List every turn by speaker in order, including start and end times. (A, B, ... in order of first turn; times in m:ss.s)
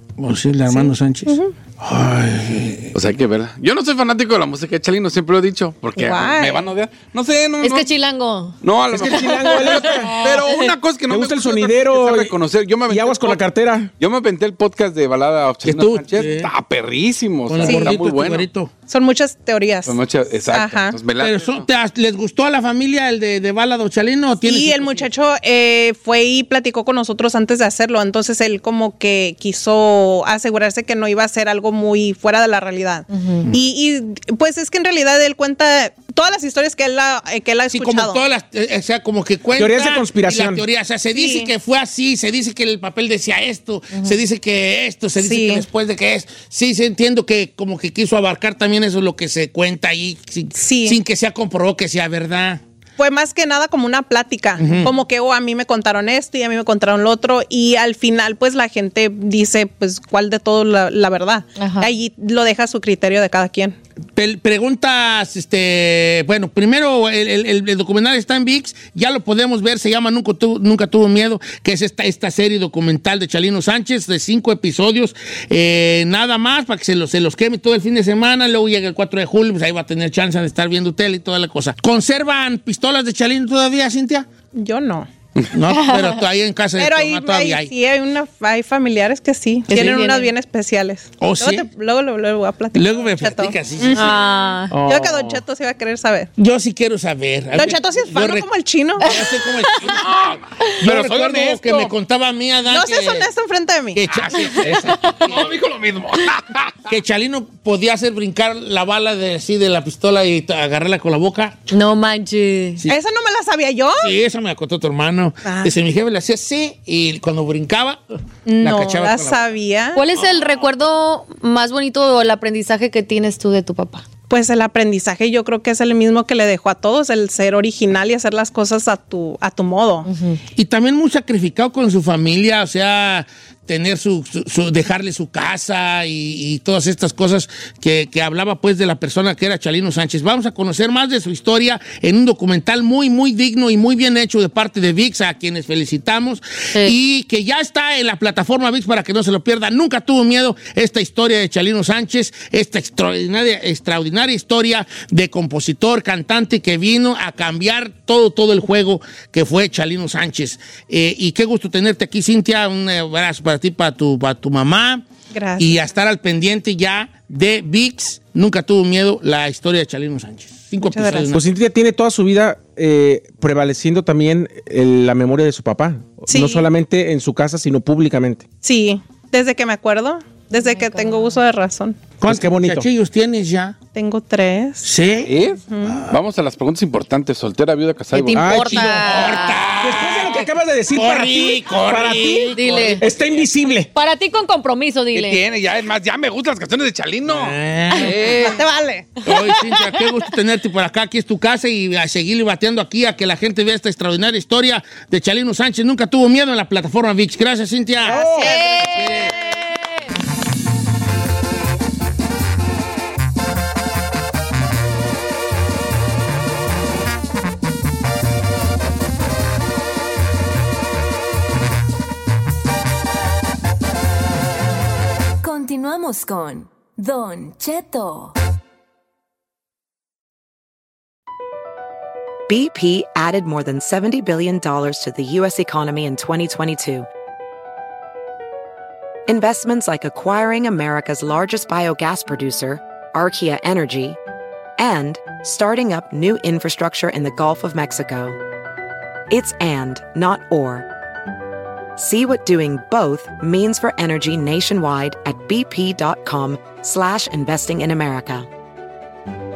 0:00.2-0:02.9 A
0:00.7-0:01.5 B
0:02.9-0:07.9 C
0:06.0-0:06.7 B
0:07.6-0:08.6 D
0:08.6-0:13.4 C
0:08.9-0:10.1 E
0:09.2-0:10.7 D
0:10.0-0:10.4 A
0:11.0-0:12.4 E
0:12.9-0:13.9 E
0:14.0-0:18.5 C
0:15.6-0:16.5 A
0:17.4-0:18.7 A
0:17.6-0:17.9 B
0:18.9-0:19.9 B
0:19.8-0:21.6 C
0:20.4-0:21.0 B
0:21.2-0:25.1 A
0:24.4-0:38.2 B
0:33.1-0:33.4 D
0:37.7-0:52.6 A
0:39.6-0:40.6 E
0:41.1-0:41.5 B
0:45.2-0:45.7 B
0:50.5-0:51.0 B
0:53.0-1:03.8 B
0:54.6-0:54.9 A
1:01.6-1:01.9 D
1:04.2-1:24.3 A
1:24.5-1:25.1 B
1:25.5-1:27.7 A
1:25.7-1:26.2 D
1:26.8-1:34.1 B
1:29.7-1:30.2 A
1:29.7-1:30.3 D
1:31.2-1:31.6 A
1:32.7-1:34.1 A
1:33.9-1:34.7 D
1:34.7-1:35.4 A
1:34.8-1:36.3 B
1:36.4-1:40.1 A
1:37.5-1:39.1 B
1:39.8-1:41.9 C
1:40.8-1:43.3 A
1:42.7-1:44.0 B
1:43.9-1:45.5 A
1:44.1-1:46.7 C
1:44.4-1:45.4 D
1:46.9-1:51.6 A
1:51.7-1:52.8 D
1:52.9-1:54.1 B
1:54.0-1:59.4 A
1:55.4-1:55.7 B
1:58.4-2:00.0 B
1:59.9-2:04.0 D
2:04.3-2:10.1 B
2:10.0-2:10.4 D
2:10.5-2:45.0 A
2:45.3-2:45.8 B
2:45.6-2:51.4 A
2:50.8-2:51.3 B
2:51.3-2:58.4 E
2:56.3-2:56.6 B
2:58.6-3:02.1 B
3:00.5-3:01.4 D
3:02.2-3:03.8 A
3:02.2-3:02.9 E
3:03.9-3:04.9 B
3:04.8-3:06.1 A
3:05.2-3:08.6 C
3:05.7-3:06.0 B
3:08.1-3:09.6 D
3:08.3-3:13.9 E
3:08.6-3:13.0 A
3:12.5-3:13.0 D
3:13.9-3:15.4 D
3:15.1-3:18.7 C
3:17.2-3:18.2 A
3:18.4-3:19.1 B
3:19.2-3:29.3 A
3:28.1-3:28.8 E
3:28.1-3:30.0 D
3:45.4-3:48.3 F
3:52.5-3:57.1 G
3:59.3-4:04.2 G
4:04.8-4:08.4 G
4:09.3-4:10.9 G
4:12.0-4:18.5 G